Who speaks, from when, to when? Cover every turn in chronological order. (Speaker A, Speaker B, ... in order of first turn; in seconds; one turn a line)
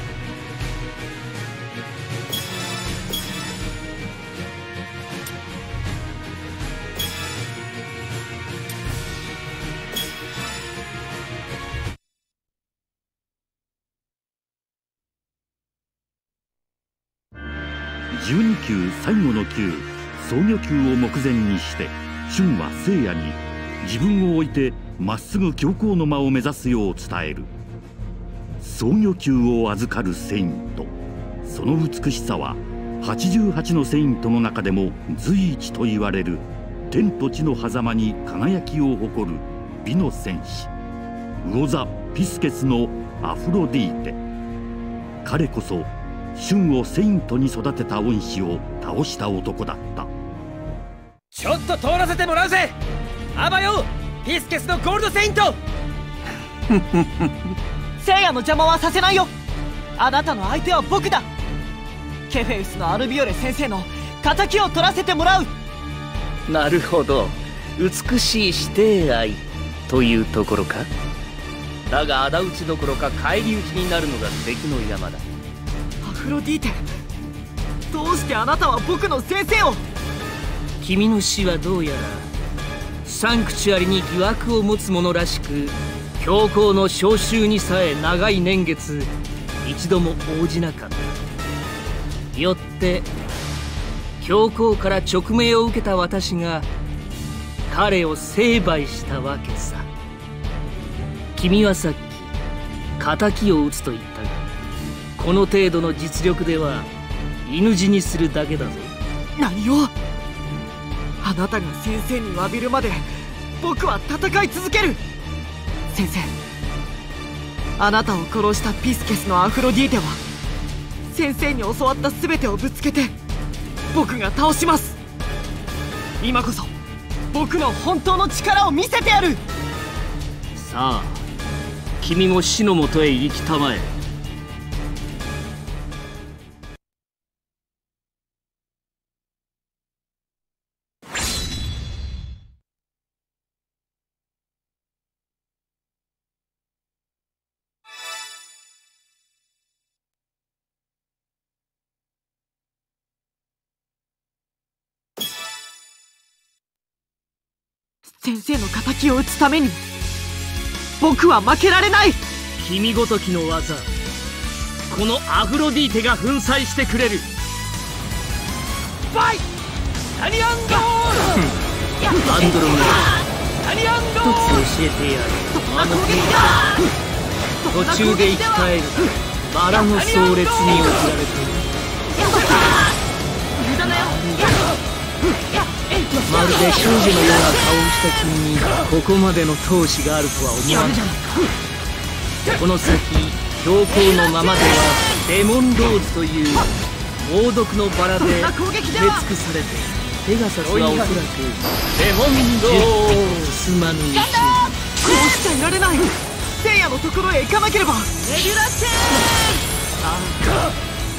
Speaker A: 18.1-27.5
Speaker A: 28.6-30.9
Speaker A: 31.4-40.7
Speaker A: 41.4-44.2
Speaker A: 45.2-50.1
Speaker B: 51.3-52.8
Speaker B: 53.4-55.6
Speaker C: 58.0-59.3
Speaker C: 60.0-61.3
Speaker C: 62.3-65.5
Speaker D: 66.5-70.9
Speaker D: 71.9-75.3
Speaker C: 76.0-76.8
Speaker C: 77.9-79.8
Speaker D: 80.8-82.3
Speaker D: 83.0-91.2
Speaker D: 92.3-93.1
Speaker D: 94.2-96.7
Speaker D: 97.7-99.9
Speaker D: 101.3-102.3
Speaker D: 103.0-104.4
Speaker D: 105.2-106.9
Speaker D: 107.5-108.9
Speaker C: 109.4-109.9
Speaker C: 111.2-113.1
Speaker C: 113.6-115.0
Speaker C: 115.9-116.3
Speaker C: 117.8-120.2
Speaker C: 121.1-123.2
Speaker C: 123.9-125.0
Speaker C: 126.2-126.7
Speaker C: 127.3-129.4
Speaker D: 130.6-131.2
Speaker D: 132.0-133.9
Speaker C: 158.1-159.8
Speaker C: 161.0-162.2
Speaker D: 162.6-163.9
Speaker D: 164.9-167.3
Speaker B: 169.1-169.4
Speaker D: 172.2-173.1
Speaker D: 174.2-176.6
Speaker C: 175.5-176.6
Speaker C: 177.6-178.7
Speaker D: 177.7-181.7
Speaker D: 183.8-184.6
Speaker D: 186.2-191.2
Speaker D: 192.6-196.7
Speaker D: 197.2-204.7
Speaker C: 198.3-199.3
Speaker C: 204.2-208.5
Speaker D: 210.0-210.7